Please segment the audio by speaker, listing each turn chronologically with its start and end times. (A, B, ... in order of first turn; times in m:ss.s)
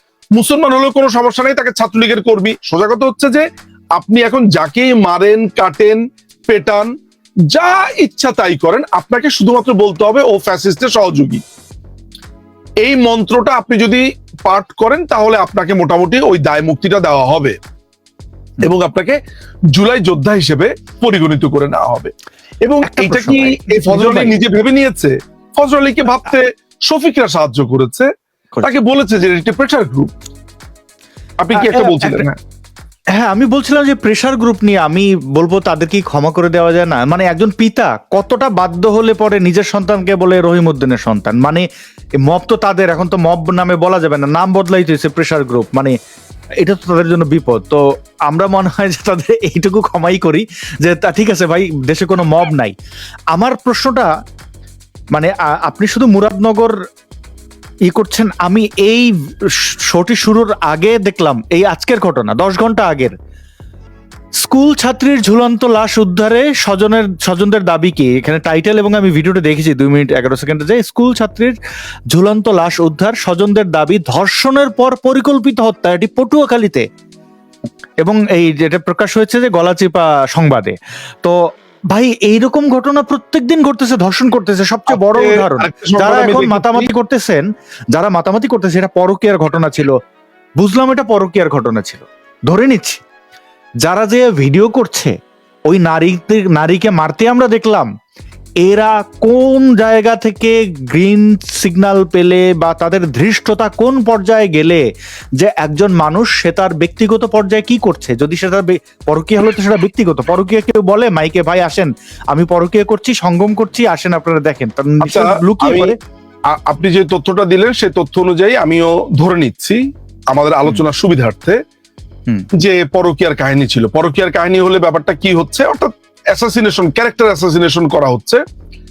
0:00.3-0:06.9 A
0:07.5-0:11.4 A
0:12.8-0:17.6 A
0:18.6-0:19.2 A
0:19.7-0:22.1 A
0:22.6-0:28.1 A
0:22.8-0:24.3 B
0:28.6-0:30.1 A
0:31.4-0:32.4 A
0:31.5-0:32.2 B
0:33.2-0:41.6 B
0:42.2-0:45.9 B
0:46.6-0:52.7 B
0:53.3-0:54.1 B
0:55.1-0:56.7 B
0:57.9-1:03.1 B
1:04.4-1:11.5 B
1:12.1-1:16.8 B
1:18.0-1:21.4 B
1:21.9-1:30.0 B
1:24.9-1:26.9 A
1:30.6-1:33.0 B
1:33.8-1:35.1 B
1:35.7-1:37.9 B
1:38.6-1:44.8 B
1:45.4-1:56.0 B
1:55.0-1:55.9 A
1:56.5-2:01.6 A
2:02.6-2:08.4 A